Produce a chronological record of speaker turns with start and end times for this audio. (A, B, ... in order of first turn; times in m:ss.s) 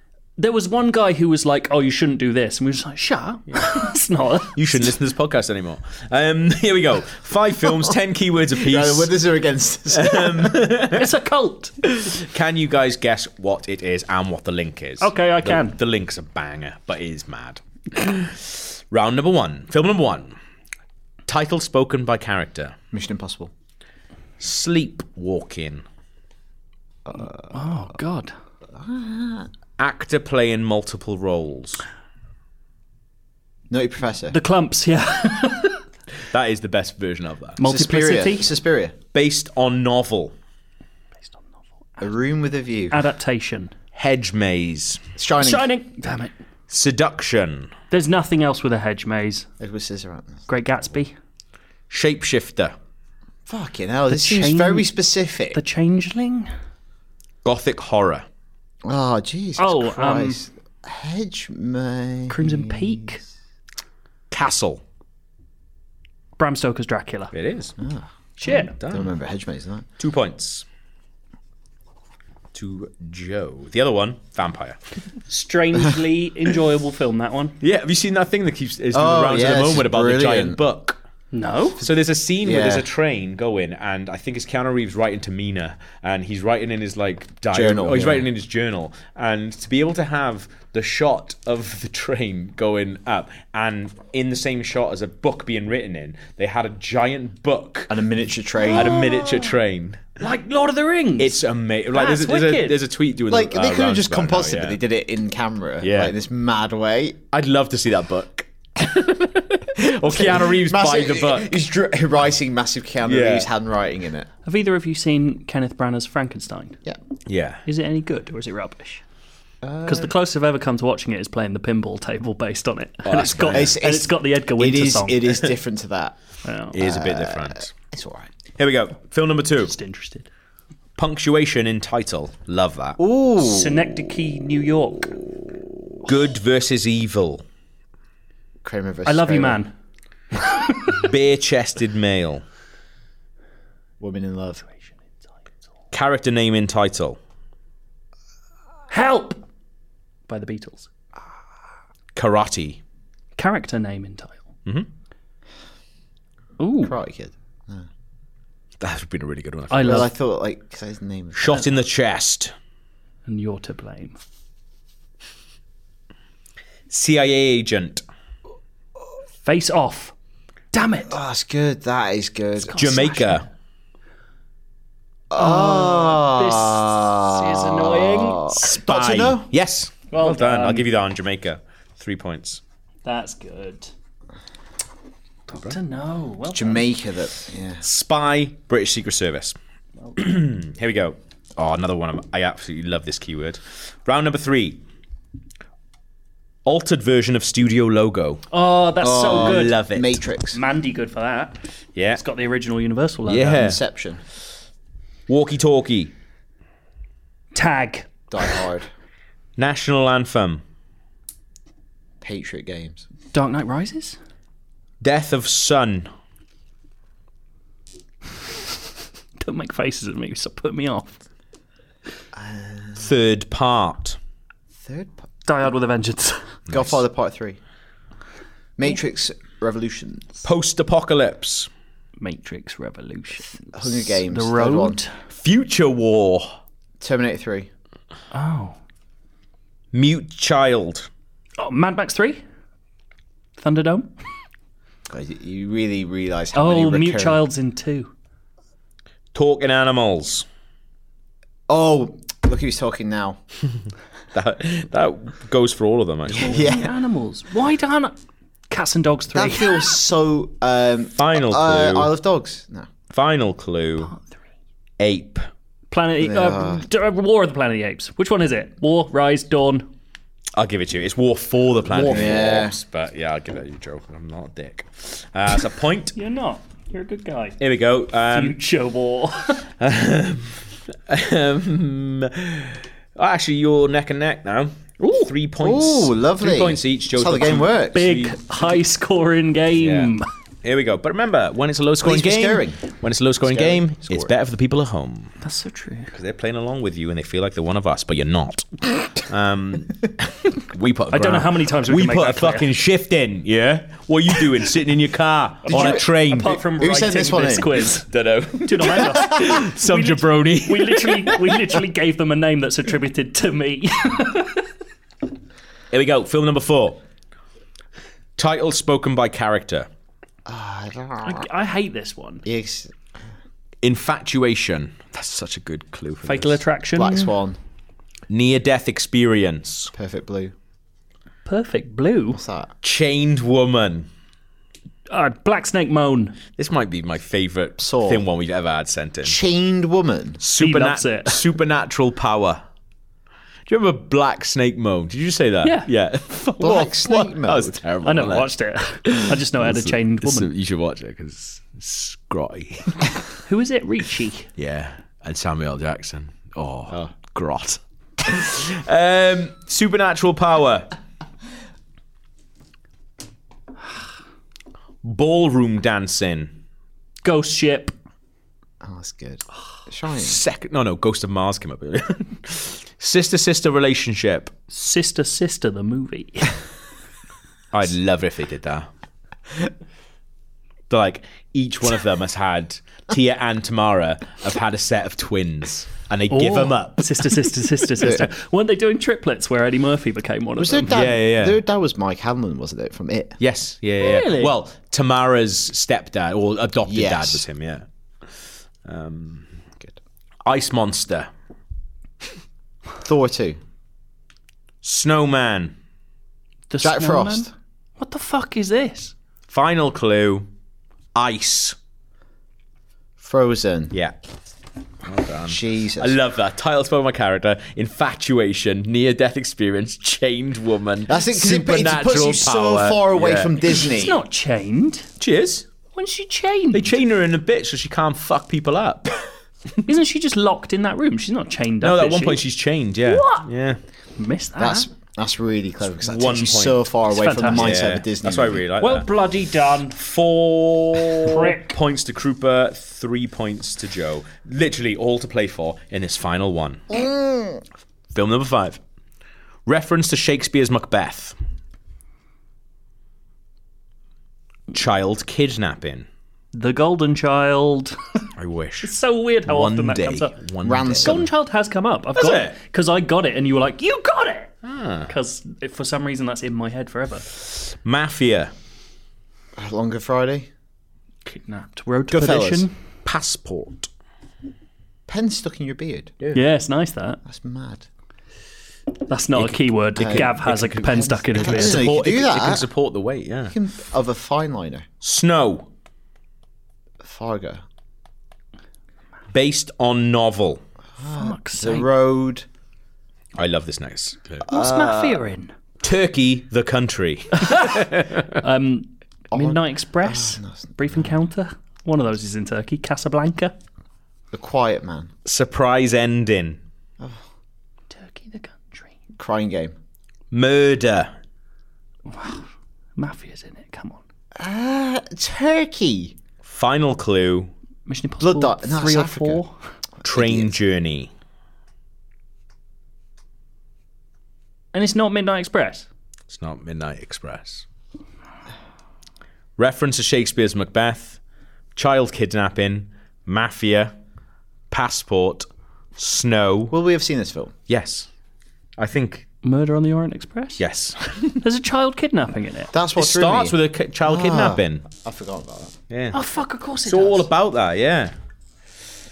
0:00.4-0:04.6 A
0:04.5-0:09.1 B
0:08.5-0:10.7 C
0:09.9-0:11.1 B
0:10.9-0:11.7 A
0:12.1-0:20.3 B
0:15.0-0:15.8 A
0:21.3-0:22.8 B
0:22.9-0:23.5 C
0:24.4-0:25.8 B
0:27.0-0:27.7 C
0:27.5-0:28.3 A
0:28.7-0:29.5 C
0:29.8-0:31.8 B
0:33.7-0:34.4 C
0:34.3-0:35.8 A
0:36.3-0:37.6 B
0:37.6-0:38.5 A
0:37.6-0:38.9 C
0:39.1-0:40.3 B
0:42.0-0:43.0 C
0:42.9-0:43.7 A
0:43.9-0:45.0 B
0:45.2-0:45.6 C
0:45.4-0:46.3 A
0:46.7-0:47.7 B
0:47.9-0:49.5 A
0:49.6-0:50.4 C
0:50.5-0:51.1 A
0:51.9-0:52.7 B
0:53.5-0:55.6 C
0:54.1-0:54.9 A
0:55.5-0:56.5 A
0:57.4-0:58.2 B
0:58.8-1:03.3 C
0:59.6-1:00.4 A
1:02.3-1:03.2 A
1:04.3-1:04.8 B
1:06.4-1:07.3 A
1:07.3-1:07.7 B
1:07.8-1:09.8 C
1:08.4-1:08.7 A
1:08.5-1:09.1 B
1:10.0-1:10.6 B
1:12.5-1:14.8 B
1:15.3-1:17.5 A
1:17.6-1:21.0 B
1:18.9-1:20.6 C
1:21.3-1:21.8 A
1:21.8-1:38.0 B
1:22.4-1:22.8 C
1:27.5-1:28.3 C
1:37.9-1:39.0 C
1:38.7-1:40.1 B
1:38.7-1:39.5 A
1:40.2-1:41.4 A
1:41.2-1:44.8 B
1:41.9-1:42.8 A
1:43.3-1:47.2 C
1:45.8-1:46.1 B
1:47.3-1:51.6 B
1:50.1-1:54.3 C
1:53.0-1:53.5 B
1:54.4-1:56.8 A
1:57.3-1:57.6 B
1:57.6-1:59.0 A
1:59.6-2:00.1 C
1:59.8-2:05.4 A
2:03.0-2:03.8 B
2:03.5-2:06.2 C
2:06.4-2:06.8 A
2:06.7-2:07.7 B
2:06.8-2:08.3 C
2:08.6-2:09.7 B
2:09.6-2:10.3 A
2:11.0-2:13.0 B
2:13.0-2:13.9 C
2:13.4-2:15.1 A
2:16.0-2:17.4 B
2:18.6-2:19.6 C
2:19.0-2:19.7 A
2:20.3-2:21.0 A
2:21.0-2:22.4 B
2:24.0-2:24.6 C
2:25.9-2:27.2 B
2:28.9-2:29.4 A
2:30.3-2:30.9 A
2:32.1-2:32.8 B
2:33.4-2:34.4 A
2:36.6-2:36.9 A
2:36.8-2:37.9 C
2:38.8-2:40.1 B
2:39.7-2:40.1 A
2:39.8-2:41.7 C
2:41.3-2:42.5 B
2:43.2-2:44.2 A
2:46.9-2:48.0 B
2:49.4-2:50.1 A
2:50.7-2:51.2 A
2:51.1-2:53.3 C
2:52.6-2:53.4 A
2:52.8-2:53.4 B
2:55.3-2:59.5 C
2:55.3-2:58.6 A
2:58.6-3:02.6 B
3:00.1-3:00.9 A
3:03.0-3:03.9 A
3:05.5-3:05.8 B
3:05.6-3:06.8 A
3:06.5-3:07.8 C
3:07.8-3:09.6 B
3:10.2-3:14.8 B
3:16.6-3:18.4 B
3:18.5-3:19.8 A
3:19.0-3:20.6 C
3:19.3-3:20.1 B
3:20.5-3:21.6 A
3:21.9-3:22.2 B
3:22.2-3:23.6 A
3:23.3-3:23.8 B
3:23.5-3:24.2 C
3:25.3-3:26.1 B
3:27.5-3:28.1 A
3:28.3-3:28.9 C
3:29.6-3:30.6 B
3:32.2-3:33.0 C
3:33.3-3:34.2 A
3:35.0-3:36.1 B
3:39.4-3:41.2 A
3:42.3-3:43.0 C
3:43.0-3:44.2 B
3:44.8-3:45.2 C
3:45.4-3:46.4 A
3:46.7-3:47.6 C
3:48.8-3:50.3 C
3:50.4-3:51.7 B
3:52.2-3:55.1 A
3:53.7-3:55.0 C
3:55.3-3:56.6 B
3:57.0-3:57.7 C
3:58.3-3:58.8 A
3:59.9-4:01.1 B
4:01.6-4:02.4 A
4:03.6-4:04.1 A
4:05.1-4:07.4 C
4:06.5-4:08.1 A
4:09.3-4:10.4 B
4:11.7-4:13.4 C
4:14.3-4:16.7 B
4:16.3-4:16.9 C
4:16.4-4:18.2 A
4:18.7-4:19.9 A
4:19.3-4:22.9 C
4:21.2-4:22.1 B
4:23.1-4:24.1 B
4:25.0-4:25.4 B
4:25.9-4:29.9 A
4:26.2-4:26.8 C
4:30.5-4:36.1 B
4:31.9-4:32.7 C
4:36.1-4:37.6 A
4:37.6-4:38.6 B
4:38.3-4:39.6 A
4:39.8-4:48.3 B
4:45.0-4:45.3 A
4:45.6-4:48.1 C
4:47.9-4:50.2 A
4:49.8-4:50.1 B
4:50.6-4:55.3 B
4:52.0-4:52.8 C
4:53.4-4:54.3 C
4:55.4-4:56.1 A
4:56.1-5:06.6 B
5:01.1-5:02.7 A
5:05.7-5:08.0 A
5:05.7-5:06.0 C
5:06.7-5:07.8 C
5:08.1-5:11.7 B
5:08.6-5:14.6 A
5:15.9-5:17.0 B
5:18.4-5:19.9 B
5:20.5-5:21.4 C
5:21.2-5:22.4 A
5:22.4-5:22.9 C
5:23.8-5:26.6 B
5:26.2-5:27.3 A
5:26.9-5:27.6 C
5:28.3-5:29.9 B
5:29.9-5:30.5 C
5:31.4-5:32.4 A
5:32.3-5:32.7 C
5:32.8-5:34.1 B
5:35.1-5:36.4 A
5:36.5-5:39.4 B
5:37.8-5:38.2 C
5:39.2-5:40.4 C
5:40.4-5:42.6 B
5:40.6-5:41.4 A
5:43.7-5:48.5 B
5:45.6-5:45.9 A
5:46.6-5:47.8 C
5:48.0-5:50.5 A
5:49.0-5:53.2 B
5:53.5-5:54.5 A
5:54.6-6:00.9 B
6:05.0-6:06.5 B
6:07.2-6:07.9 A
6:08.8-6:10.4 C
6:10.2-6:14.5 B
6:14.7-6:16.5 A
6:17.7-6:18.9 B
6:20.9-6:27.3 B
6:26.3-6:31.0 A
6:30.6-6:33.4 C
6:30.9-6:31.6 B
6:33.4-6:38.3 B
6:34.0-6:34.5 A
6:36.8-6:37.4 C
6:38.8-6:39.5 B
6:40.4-6:41.3 B
6:43.0-6:43.6 C
6:44.8-6:45.7 B
6:46.7-6:49.1 A
6:46.8-6:47.5 C
6:49.5-6:50.5 B
6:51.1-6:51.8 B
6:53.2-6:53.9 C
6:55.0-7:03.8 B
6:55.5-6:56.2 C
7:01.1-7:04.2 C
7:03.7-7:05.1 A
7:05.2-7:05.6 B
7:06.0-7:06.9 A
7:06.7-7:09.2 B
7:09.8-7:12.4 A
7:11.8-7:13.8 B
7:13.0-7:13.4 A
7:14.2-7:14.9 A
7:14.6-7:18.6 C
7:16.0-7:16.9 B
7:17.1-7:17.8 A
7:17.4-7:19.1 B
7:18.8-7:20.0 A
7:20.0-7:27.0 B
7:21.2-7:21.8 A
7:26.9-7:27.6 C
7:28.1-7:28.8 B
7:29.6-7:31.4 B
7:34.7-7:36.1 B
7:36.5-7:38.0 A
7:38.4-7:38.9 B
7:38.8-7:40.3 A
7:39.4-7:41.2 B
7:40.6-7:41.2 C
7:41.0-7:44.5 A
7:42.1-7:42.5 B
7:44.6-7:45.1 B
7:45.1-7:47.2 A
7:47.4-7:48.5 B
7:49.6-7:50.5 C
7:51.2-7:52.7 A
7:52.1-7:52.7 C
7:53.0-7:53.9 B
7:55.1-7:56.1 C
7:56.3-7:57.2 A
7:57.2-7:57.9 C
7:59.1-8:01.8 A
7:59.4-8:03.6 B
8:00.0-8:00.4 C
8:01.0-8:02.7 C
8:03.5-8:04.8 C
8:05.0-8:05.7 B
8:07.0-8:07.6 C
8:09.3-8:10.6 B
8:11.0-8:12.4 C
8:11.1-8:11.9 A
8:13.4-8:14.4 B
8:14.5-8:15.2 C
8:14.5-8:15.5 A
8:15.8-8:18.4 B
8:17.4-8:17.7 A
8:18.4-8:23.5 A
8:19.3-8:21.0 C
8:24.3-8:25.1 C
8:25.2-8:26.6 B
8:27.9-8:28.9 A
8:29.2-8:29.7 C
8:30.3-8:31.1 B
8:32.1-8:32.4 A
8:33.0-8:34.0 A
8:34.4-8:36.1 C
8:36.4-8:37.5 B
8:37.9-8:39.5 A
8:38.2-8:39.4 C
8:40.0-8:40.5 C
8:40.0-8:41.1 B
8:44.7-8:45.9 A
8:46.3-8:47.6 B
8:49.6-8:51.2 B
8:51.8-8:53.9 B
8:54.7-8:55.4 B
8:56.0-8:56.8 B
8:56.7-8:57.5 C
8:57.7-8:58.1 B
8:58.8-8:59.3 B
8:59.4-9:00.6 A
9:00.6-9:01.4 B
9:01.4-9:02.7 A
9:02.7-9:05.8 C
9:03.0-9:04.8 B
9:05.9-9:06.2 B
9:06.1-9:07.3 A
9:06.8-9:08.1 B